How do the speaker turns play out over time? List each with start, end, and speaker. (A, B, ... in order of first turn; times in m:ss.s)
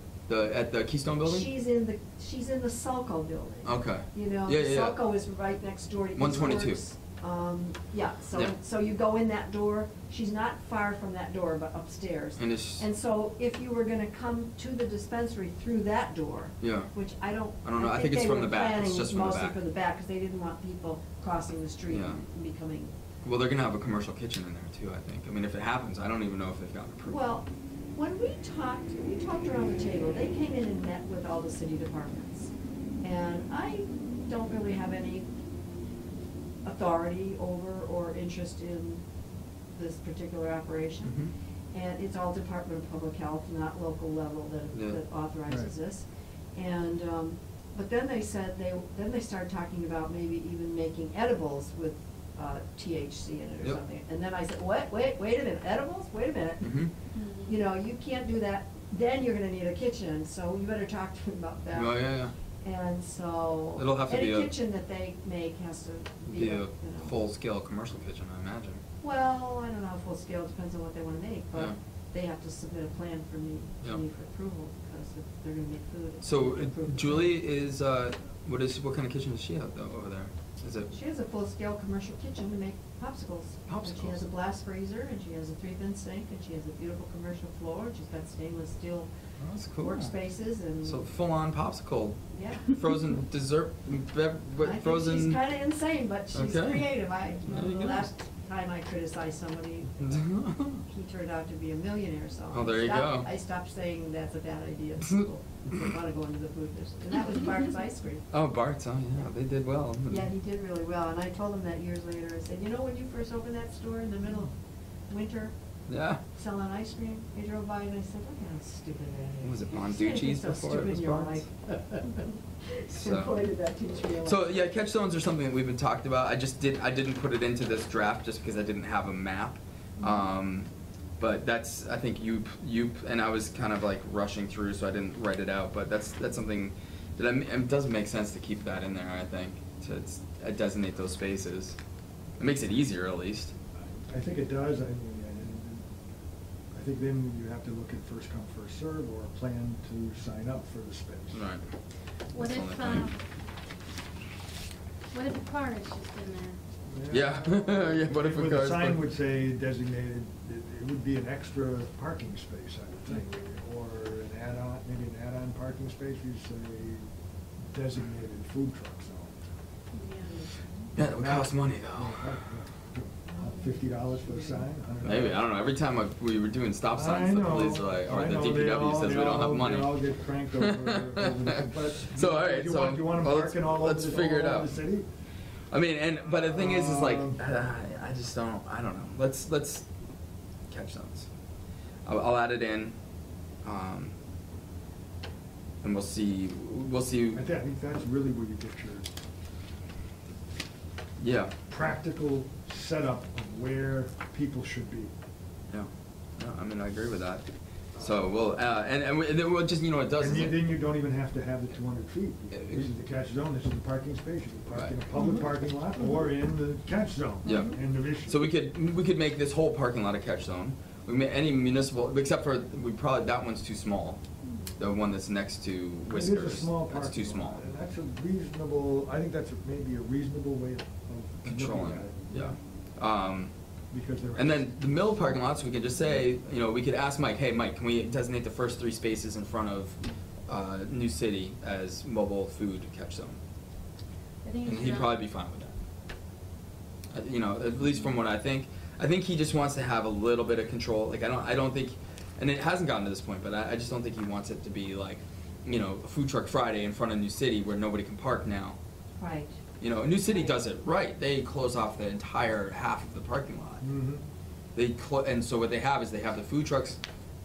0:00.3-0:01.5 A
0:01.2-0:22.9 B
0:03.6-0:05.0 A
0:06.2-0:06.8 A
0:12.4-0:12.8 A
0:16.6-0:16.9 A
0:17.6-0:19.6 A
0:21.9-0:22.2 A
0:23.2-0:27.2 A
0:27.1-0:35.3 B
0:36.6-0:39.0 B
0:39.7-0:56.8 B
0:41.0-0:41.3 A
0:44.7-0:45.0 A
0:56.6-0:56.9 A
0:57.1-0:57.6 C
0:57.4-1:02.1 B
1:01.7-1:02.3 A
1:02.6-1:07.2 B
1:03.8-1:04.5 A
1:06.3-1:08.8 A
1:09.0-1:17.3 B
1:16.2-1:20.9 A
1:20.9-1:29.1 B
1:23.7-1:24.2 A
1:29.4-1:30.1 A
1:29.8-1:31.0 B
1:30.8-1:35.4 A
1:32.3-1:32.7 B
1:34.6-1:40.3 B
1:36.3-1:38.0 A
1:40.0-1:40.8 A
1:40.8-1:48.3 B
1:42.5-1:43.3 A
1:48.3-1:50.3 A
1:50.1-1:54.5 B
1:55.1-1:55.5 B
1:55.9-1:56.2 A
1:56.3-2:01.5 B
1:59.4-2:01.3 A
2:02.0-2:04.4 B
2:02.9-2:03.4 A
2:04.2-2:10.7 A
2:11.2-2:21.8 A
2:22.4-2:23.5 A
2:24.1-2:25.8 D
2:26.7-2:31.4 D
2:31.3-2:31.6 A
2:32.3-2:33.2 C
2:32.3-2:33.1 A
2:35.1-2:36.6 C
2:36.9-2:47.1 D
2:37.1-2:39.0 A
2:47.7-2:49.5 D
2:49.9-2:50.7 C
2:51.0-2:52.4 A
2:51.1-2:55.4 D
2:53.4-2:54.6 C
2:55.0-3:04.8 A
2:56.9-3:05.1 D
3:05.7-3:09.8 A
3:06.4-3:07.4 D
3:10.7-3:11.3 A
3:12.0-3:13.0 A
3:13.6-3:14.1 A
3:15.8-3:17.4 A
3:17.3-3:19.1 D
3:21.2-3:21.5 A
3:21.7-3:25.1 D
3:25.7-3:30.6 A
3:30.2-3:38.4 D
3:32.5-3:32.9 A
3:34.7-3:35.0 A
3:37.4-3:44.2 A
3:44.8-3:47.6 A
3:46.1-3:52.6 D
3:51.4-3:53.5 A
3:53.9-3:54.8 D
3:54.4-4:03.4 A
4:04.4-4:05.2 C
4:04.6-4:05.7 A
4:07.1-4:18.8 A
4:19.2-4:19.6 B
4:19.8-4:23.8 A
4:23.8-4:24.2 D
4:24.7-4:27.0 A